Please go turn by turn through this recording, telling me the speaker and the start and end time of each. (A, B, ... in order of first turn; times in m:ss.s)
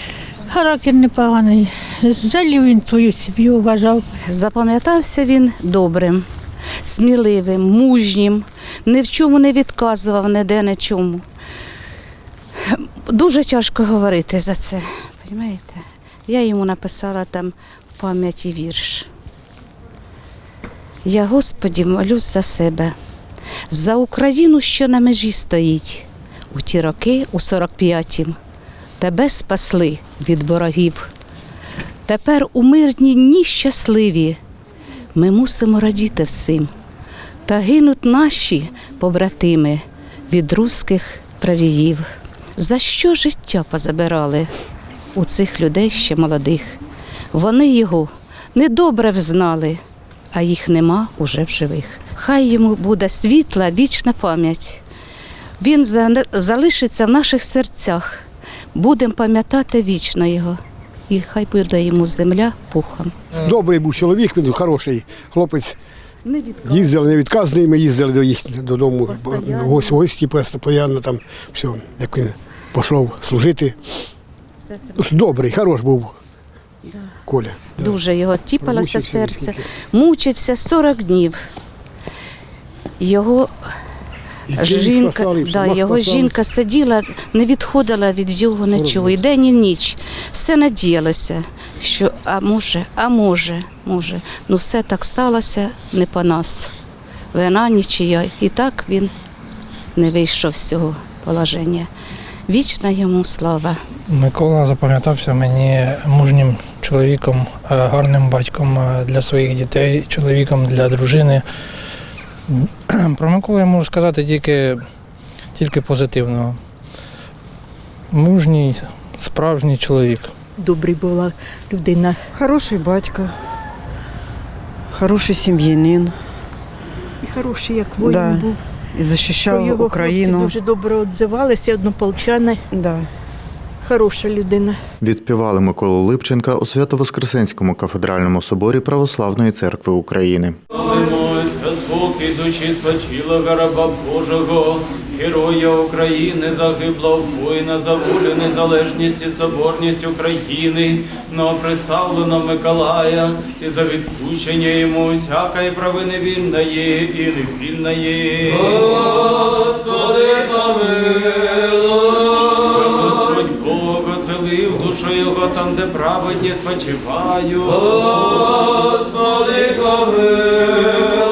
0:00.5-0:04.1 A
0:04.2-0:06.2 B
0:06.8-0:11.2 B
0:12.6-0:19.1 B
0:21.0-0:22.9 B
0:23.7-0:28.4 B
0:29.0-0:31.1 B
0:32.0-0:34.4 B
0:35.2-0:36.7 B
0:37.4-0:44.5 B
0:45.1-0:46.8 B
0:47.3-0:49.8 B
0:50.3-0:54.8 B
0:55.6-0:58.1 B
0:58.7-1:00.6 B
1:01.1-1:03.1 B
1:03.4-1:05.8 C
1:06.2-1:06.9 B
1:06.6-1:13.9 C
1:09.1-1:09.9 B
1:14.9-1:16.1 C
1:17.2-1:18.0 C
1:17.8-1:21.4 B
1:18.6-1:19.7 C
1:23.0-1:23.5 B
1:24.5-1:26.3 C
1:24.6-1:36.7 B
1:28.7-1:29.2 C
1:37.3-1:39.1 B
1:39.9-1:41.9 B
1:42.5-1:43.8 B
1:44.1-1:51.4 D
1:52.5-1:54.8 D
1:55.5-1:56.6 D
1:58.1-2:00.3 D
2:00.6-2:02.2 E
2:02.3-2:03.4 F
2:04.9-2:06.2 F
2:07.2-2:08.6 E
2:08.0-2:10.5 F
2:09.5-2:12.6 E
2:12.7-2:13.0 F
2:13.8-2:14.8 E
2:15.0-2:20.6 G
2:20.7-2:49.9 H